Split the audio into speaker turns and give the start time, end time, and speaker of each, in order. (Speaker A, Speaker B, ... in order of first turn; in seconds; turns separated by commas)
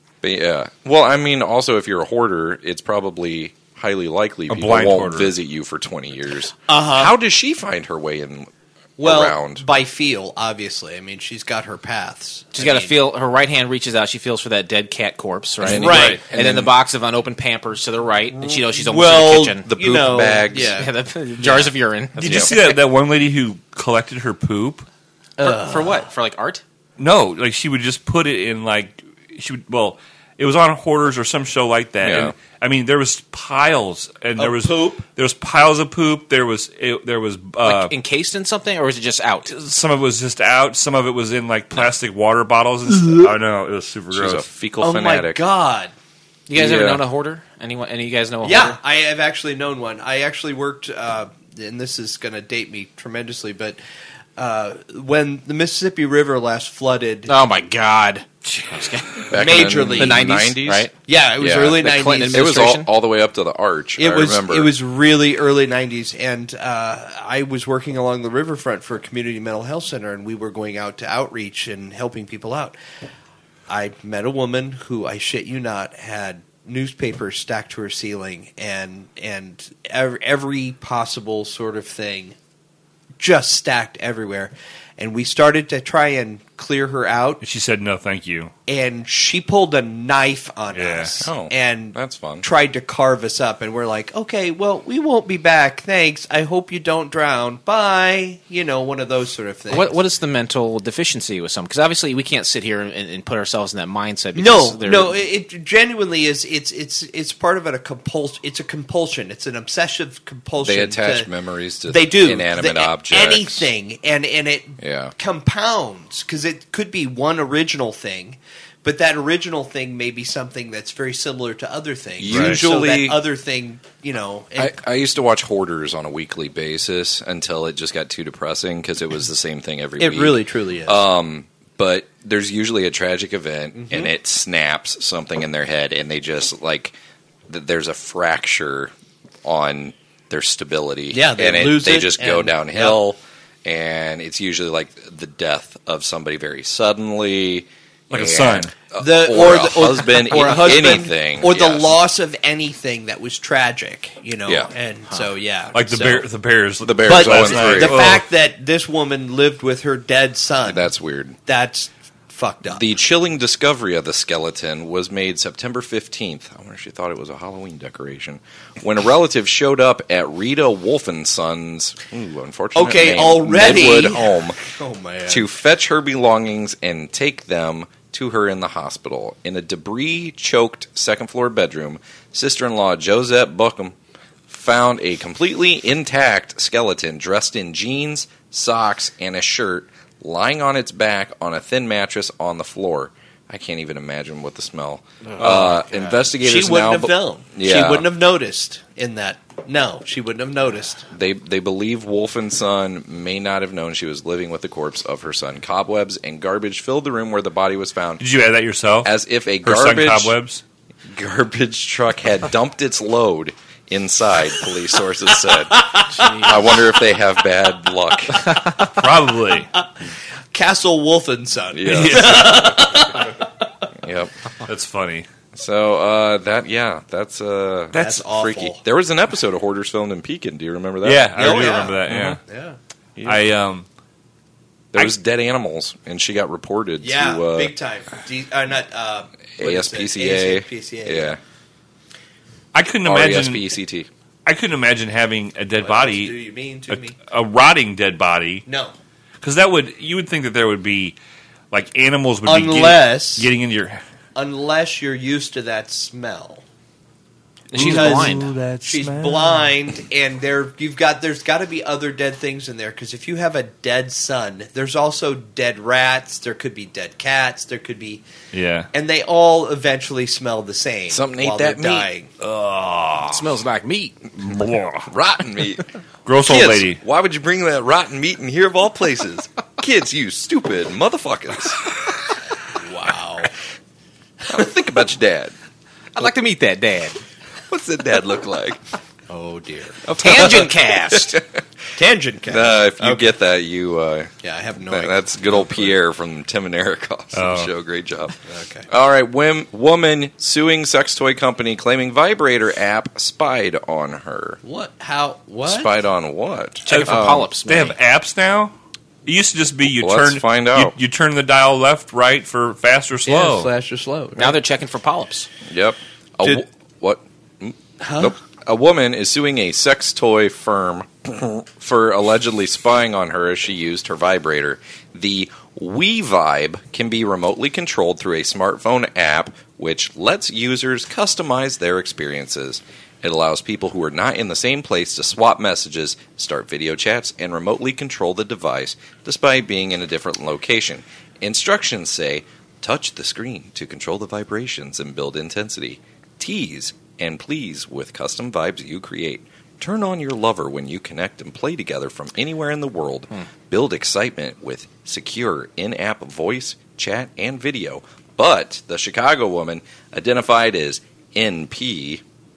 Speaker A: 0.2-9.7, Speaker B: 4.5-5.3, Speaker C: 6.7-7.1, Speaker C: 9.0-13.0, Speaker D: 12.6-19.7, Speaker A: 15.6-16.7, Speaker C: 15.7-16.2, Speaker C: 18.3-20.9, Speaker A: 19.6-20.8, Speaker D: 20.8-22.6, Speaker C: 22.2-22.5, Speaker B: 22.2-24.9, Speaker C: 25.4-26.1, Speaker D: 25.4-26.6, Speaker B: 27.0-37.9, Speaker A: 32.0-32.4, Speaker C: 34.4-35.0, Speaker D: 37.6-39.5, Speaker B: 39.5-44.5, Speaker A: 44.1-45.4, Speaker C: 44.8-45.9, Speaker D: 46.5-48.8, Speaker A: 46.5-47.0, Speaker C: 48.4-53.8, Speaker C: 54.4-57.3, Speaker D: 57.3-59.3, Speaker A: 59.3-64.7, Speaker C: 59.3-60.4, Speaker D: 60.0-60.9, Speaker C: 61.1-62.6, Speaker D: 61.8-62.9, Speaker C: 64.0-72.8, Speaker C: 73.7-82.4, Speaker C: 83.2-87.4, Speaker B: 87.4-88.5, Speaker C: 88.7-100.0, Speaker B: 90.7-91.1, Speaker A: 91.2-92.5, Speaker D: 99.7-105.2, Speaker C: 104.3-111.3, Speaker A: 110.6-113.7, Speaker C: 111.9-124.8, Speaker A: 114.8-115.1, Speaker A: 122.2-123.2, Speaker B: 122.3-122.6, Speaker A: 124.6-137.0, Speaker C: 130.0-131.0, Speaker C: 133.8-134.1, Speaker A: 137.5-138.9, Speaker A: 139.4-152.0, Speaker C: 141.1-143.0, Speaker B: 148.1-148.7, Speaker C: 149.0-156.3, Speaker B: 155.7-158.3, Speaker A: 156.8-158.2, Speaker C: 157.0-160.9, Speaker A: 160.7-161.4, Speaker C: 161.5-162.9, Speaker A: 162.7-174.6, Speaker C: 172.8-175.4, Speaker A: 175.3-184.0, Speaker A: 184.5-198.1, Speaker D: 195.3-196.2, Speaker C: 196.4-201.1, Speaker A: 201.1-208.2, Speaker B: 208.2-210.6, Speaker A: 209.0-210.4, Speaker A: 211.1-218.6, Speaker C: 215.8-216.6, Speaker D: 216.2-216.4, Speaker B: 218.9-219.7, Speaker C: 220.5-223.4, Speaker A: 221.7-222.8, Speaker B: 221.9-222.7, Speaker A: 224.0-224.3, Speaker B: 224.7-225.3, Speaker A: 225.5-232.4, Speaker C: 227.9-228.8, Speaker B: 231.0-232.4, Speaker C: 231.4-232.8, Speaker A: 233.2-233.4, Speaker B: 233.2-233.9, Speaker A: 234.9-237.7, Speaker C: 237.0-241.4, Speaker A: 239.6-241.4, Speaker B: 242.7-243.7, Speaker A: 243.1-244.1, Speaker B: 244.5-246.4, Speaker C: 245.8-247.2, Speaker B: 246.9-248.7, Speaker C: 248.7-248.9, Speaker B: 249.4-251.2, Speaker B: 251.7-254.0, Speaker C: 252.5-253.5, Speaker C: 254.4-256.6, Speaker D: 257.7-258.5, Speaker B: 257.7-259.7, Speaker C: 257.8-268.2, Speaker B: 268.5-268.9, Speaker C: 268.9-272.3, Speaker A: 271.1-272.1, Speaker B: 272.4-273.5, Speaker D: 273.3-274.2, Speaker B: 274.4-275.1, Speaker A: 275.1-275.9, Speaker B: 276.3-277.0, Speaker A: 276.4-281.8, Speaker C: 282.7-283.5, Speaker A: 284.5-285.6, Speaker D: 286.2-287.2, Speaker A: 287.7-288.8, Speaker C: 289.3-290.6, Speaker A: 290.0-291.6, Speaker D: 290.2-291.4, Speaker C: 291.9-293.3, Speaker A: 292.5-294.3, Speaker C: 294.4-295.9, Speaker A: 294.9-298.4, Speaker B: 297.3-297.7, Speaker C: 298.5-298.9, Speaker A: 298.9-304.6, Speaker C: 304.6-305.9, Speaker A: 305.6-307.5, Speaker D: 306.9-307.9, Speaker B: 306.9-308.7, Speaker B: 309.2-313.7, Speaker A: 310.0-310.9, Speaker C: 313.3-314.6, Speaker D: 314.4-315.5, Speaker A: 315.7-362.2, Speaker C: 318.0-318.4